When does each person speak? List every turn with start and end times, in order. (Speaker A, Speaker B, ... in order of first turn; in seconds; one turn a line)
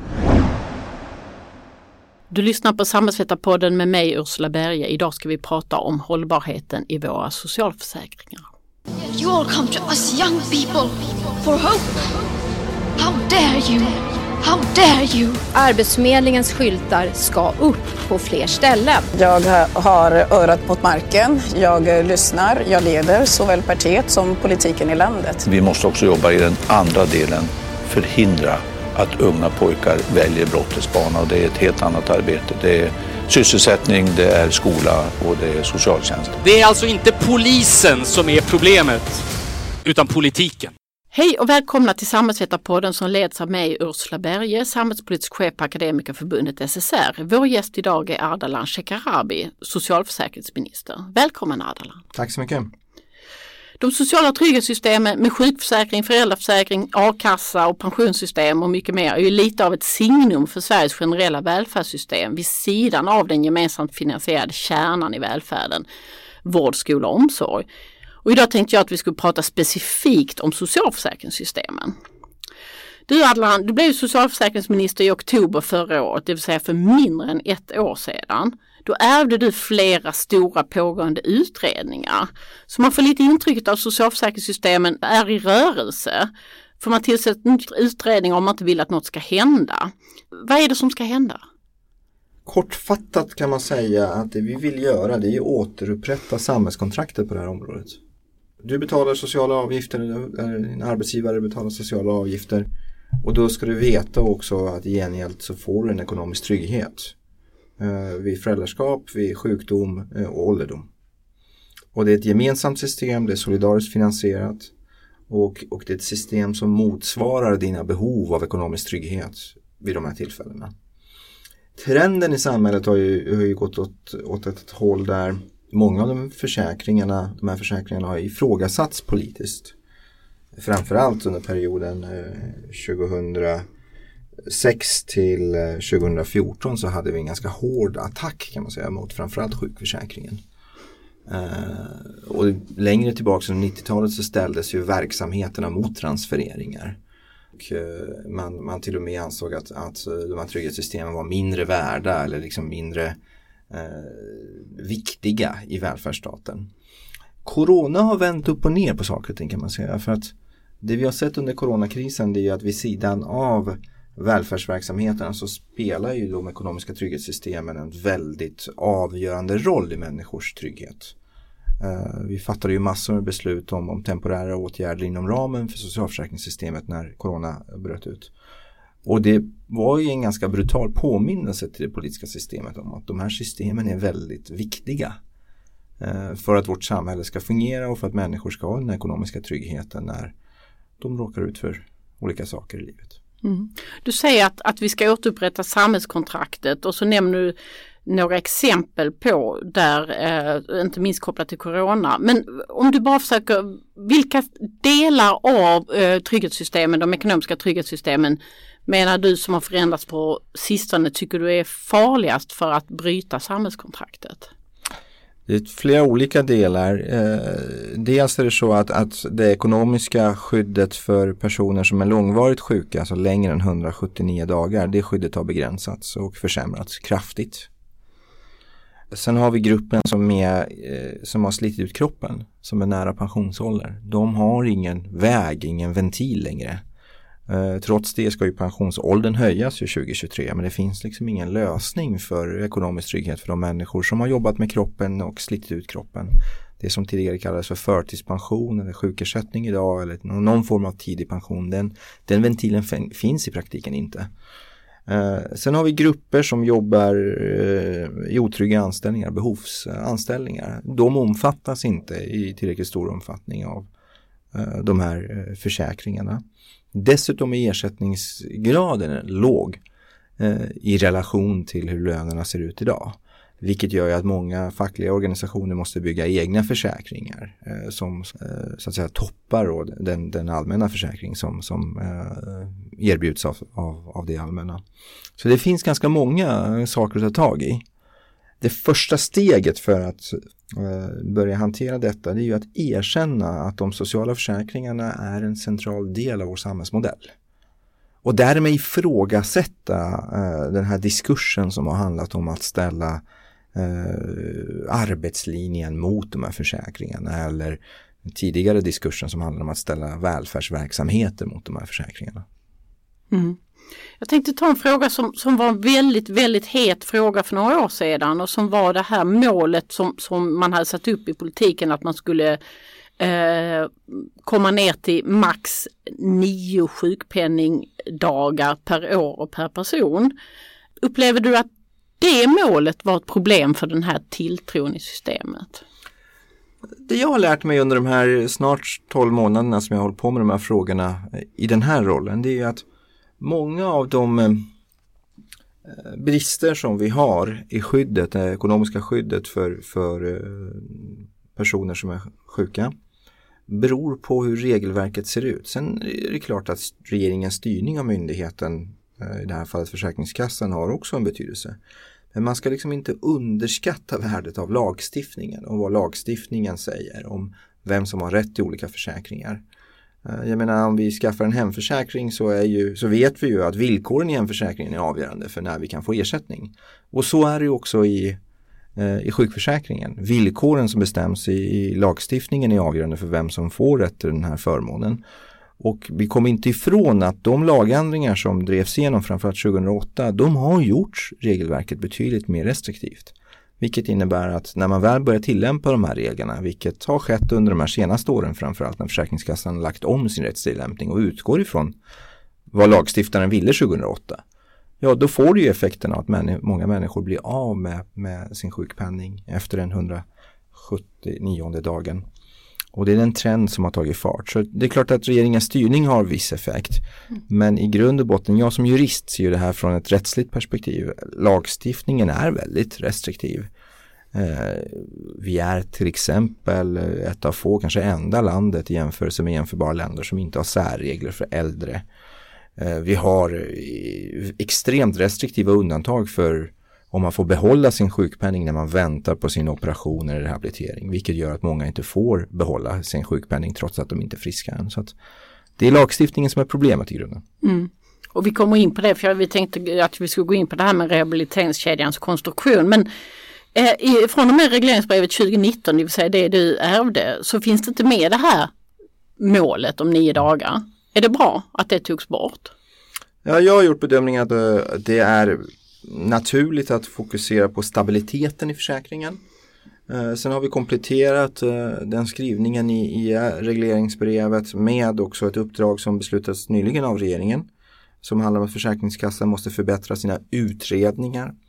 Speaker A: 2.3-8.5
Speaker B: 9.2-10.9
Speaker C: 10.1-10.5
Speaker C: 11.4-11.7
Speaker B: 11.5-11.8
Speaker B: 13.0-13.8
Speaker C: 13.5-13.8
Speaker B: 14.5-15.3
Speaker C: 14.6-19.1
Speaker D: 19.1-25.4
Speaker E: 25.4-36.4
Speaker F: 36.4-39.2
Speaker F: 39.8-40.7
Speaker A: 41.1-52.0
Speaker G: 52.1-52.7
Speaker A: 53.8-65.8
Speaker A: 66.4-67.6
Speaker A: 68.2-72.0
Speaker A: 73.1-91.4
Speaker G: 92.5-98.0
Speaker G: 98.6-102.7
Speaker G: 103.2-107.1
Speaker G: 107.8-110.9
Speaker G: 111.9-114.7
Speaker G: 115.3-120.7
Speaker G: 121.8-129.7
Speaker G: 130.6-133.6
Speaker G: 134.5-140.4
Speaker G: 141.2-147.0
Speaker G: 147.5-153.2
Speaker G: 153.7-156.7
Speaker G: 157.4-171.1
Speaker G: 171.8-178.3
Speaker G: 179.0-185.2
Speaker G: 186.0-190.3
Speaker G: 191.0-193.2
Speaker A: 193.4-214.5
Speaker G: 215.5-227.7
Speaker G: 229.1-236.8
Speaker G: 237.5-254.3
Speaker G: 255.1-263.9
Speaker G: 264.5-266.4
Speaker G: 266.9-269.8
Speaker G: 270.4-284.8
Speaker G: 285.4-287.8
Speaker G: 288.6-297.3
Speaker G: 298.2-303.2
Speaker G: 303.7-312.4
Speaker A: 313.3-313.6
Speaker A: 314.2-322.6
Speaker A: 323.2-330.3
Speaker A: 331.0-331.7
Speaker A: 332.2-335.8
Speaker G: 337.0-342.8
Speaker G: 343.4-344.7
Speaker G: 345.9-352.9
Speaker G: 353.7-361.8
Speaker G: 362.3-369.6
Speaker G: 370.2-378.4
Speaker G: 378.9-385.2
Speaker G: 385.8-401.9
Speaker G: 402.7-404.4
Speaker G: 405.0-412.2
Speaker G: 412.9-423.7
Speaker G: 424.3-432.0
Speaker G: 432.8-445.1
Speaker G: 445.8-447.4
Speaker A: 447.6-453.1
Speaker A: 453.7-458.7
Speaker A: 459.4-462.7
Speaker G: 463.4-469.4
Speaker G: 470.1-477.6
Speaker G: 478.2-481.5